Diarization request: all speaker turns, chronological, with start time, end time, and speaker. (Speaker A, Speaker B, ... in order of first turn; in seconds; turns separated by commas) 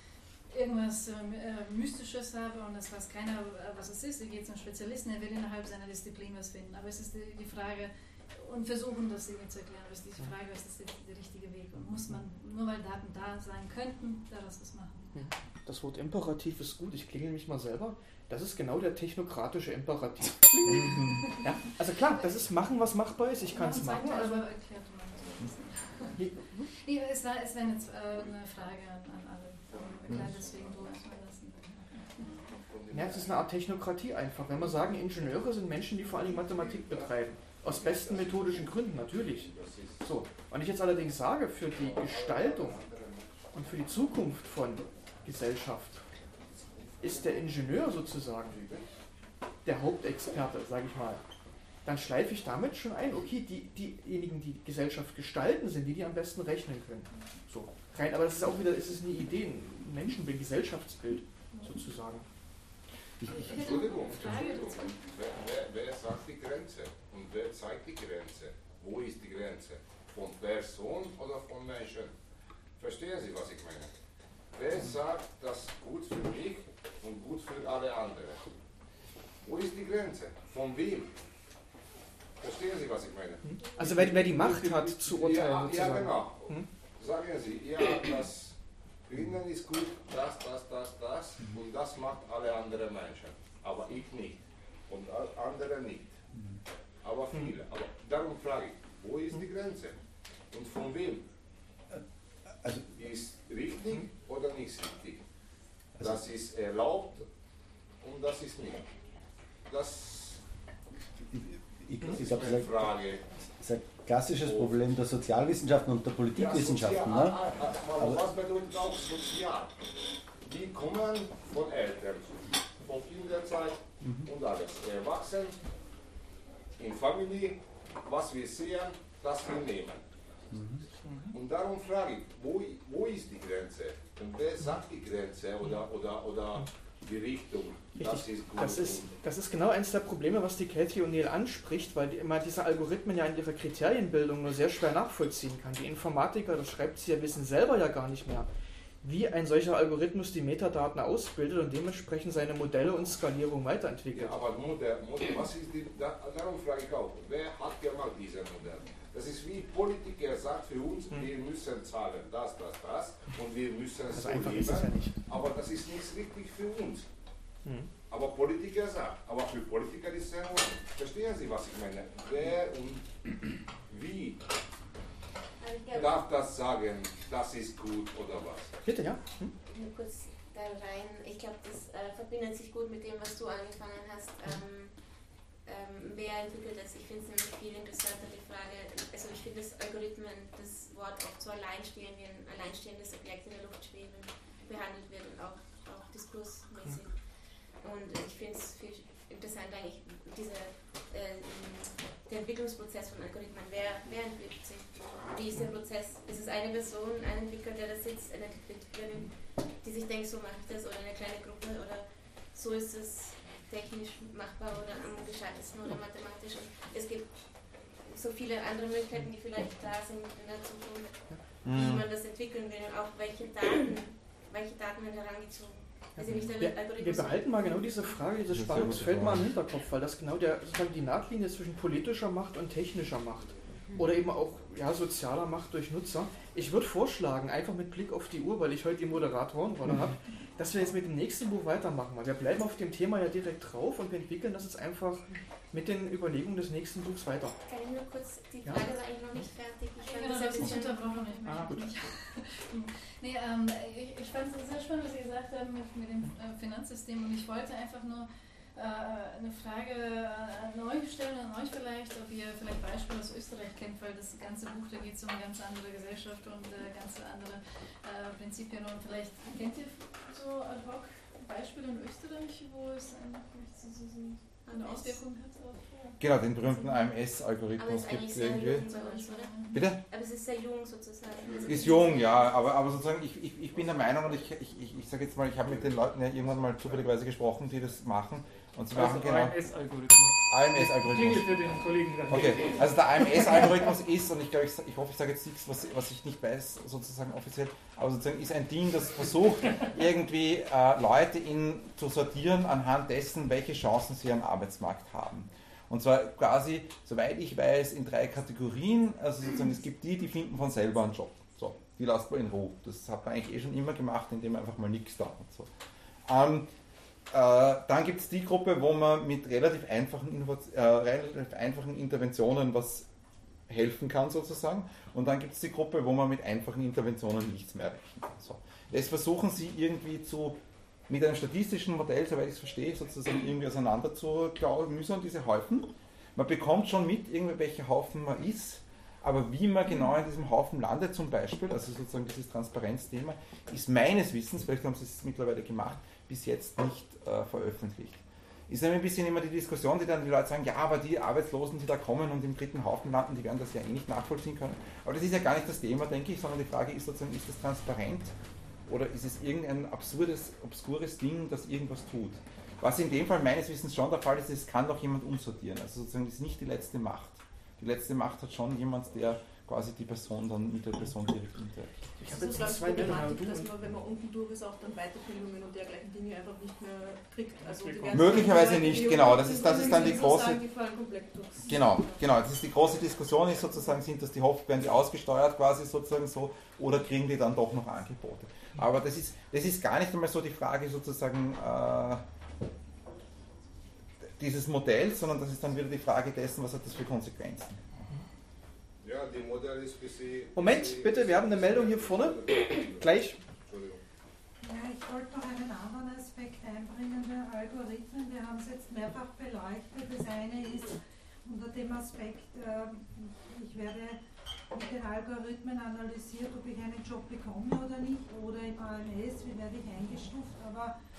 Speaker A: 0.5-15.1, Speaker B: 15.1-24.4, Speaker C: 20.7-21.2, Speaker A: 23.5-32.3, Speaker B: 26.2-26.6, Speaker D: 29.7-30.9, Speaker D: 32.5-33.5, Speaker B: 32.9-42.8, Speaker D: 36.1-38.7, Speaker D: 39.3-40.0, Speaker D: 41.7-43.5, Speaker B: 43.5-46.0, Speaker D: 46.5-47.5, Speaker B: 47.0-48.6, Speaker D: 48.5-48.8, Speaker B: 49.6-51.2, Speaker B: 51.8-62.2, Speaker A: 63.3-65.0, Speaker D: 63.3-72.1, Speaker D: 72.8-73.9, Speaker D: 74.5-78.4, Speaker D: 79.4-81.1, Speaker D: 82.4-88.5, Speaker B: 83.4-86.7, Speaker D: 89.1-96.2, Speaker D: 97.0-100.0, Speaker D: 100.5-101.2, Speaker E: 102.6-102.9, Speaker D: 102.9-105.2, Speaker D: 106.0-107.2, Speaker D: 108.0-108.8, Speaker D: 109.7-110.4, Speaker E: 111.3-117.4, Speaker D: 112.0-113.2, Speaker D: 114.4-114.7, Speaker D: 116.3-119.7, Speaker D: 120.4-125.6, Speaker E: 124.0-124.3, Speaker D: 126.8-130.0, Speaker E: 130.5-130.8, Speaker B: 131.1-131.3, Speaker D: 131.3-139.1, Speaker B: 137.9-148.5, Speaker B: 149.0-154.4, Speaker D: 154.1-167.1, Speaker B: 164.1-165.2, Speaker B: 167.6-167.9, Speaker D: 168.1-173.3, Speaker D: 173.9-174.4, Speaker F: 175.6-176.2, Speaker D: 175.9-178.7, Speaker B: 178.8-179.5, Speaker F: 179.7-184.9, Speaker F: 185.7-197.1, Speaker F: 197.8-209.3, Speaker F: 209.8-217.3, Speaker F: 218.1-227.4, Speaker C: 221.7-222.0, Speaker B: 226.2-247.5, Speaker C: 228.5-229.5, Speaker F: 247.7-251.7, Speaker A: 250.0-276.2, Speaker B: 251.5-251.8, Speaker F: 274.6-275.2, Speaker C: 276.2-278.9, Speaker F: 277.8-282.5, Speaker A: 278.9-279.8, Speaker C: 279.7-280.0, Speaker D: 281.4-282.2, Speaker C: 281.6-289.5, Speaker D: 286.5-287.0, Speaker G: 288.9-292.9, Speaker C: 290.5-291.5, Speaker C: 292.3-315.7, Speaker C: 316.2-316.7, Speaker C: 317.3-323.1, Speaker C: 323.7-330.6, Speaker C: 331.1-358.3, Speaker C: 358.9-371.9, Speaker B: 372.2-373.7, Speaker H: 372.2-382.2, Speaker G: 377.6-378.7, Speaker C: 378.1-380.6, Speaker C: 381.6-392.2, Speaker C: 394.4-397.8, Speaker D: 399.0-403.1, Speaker B: 400.5-403.4, Speaker D: 403.7-404.0, Speaker I: 404.6-414.2, Speaker I: 414.7-420.9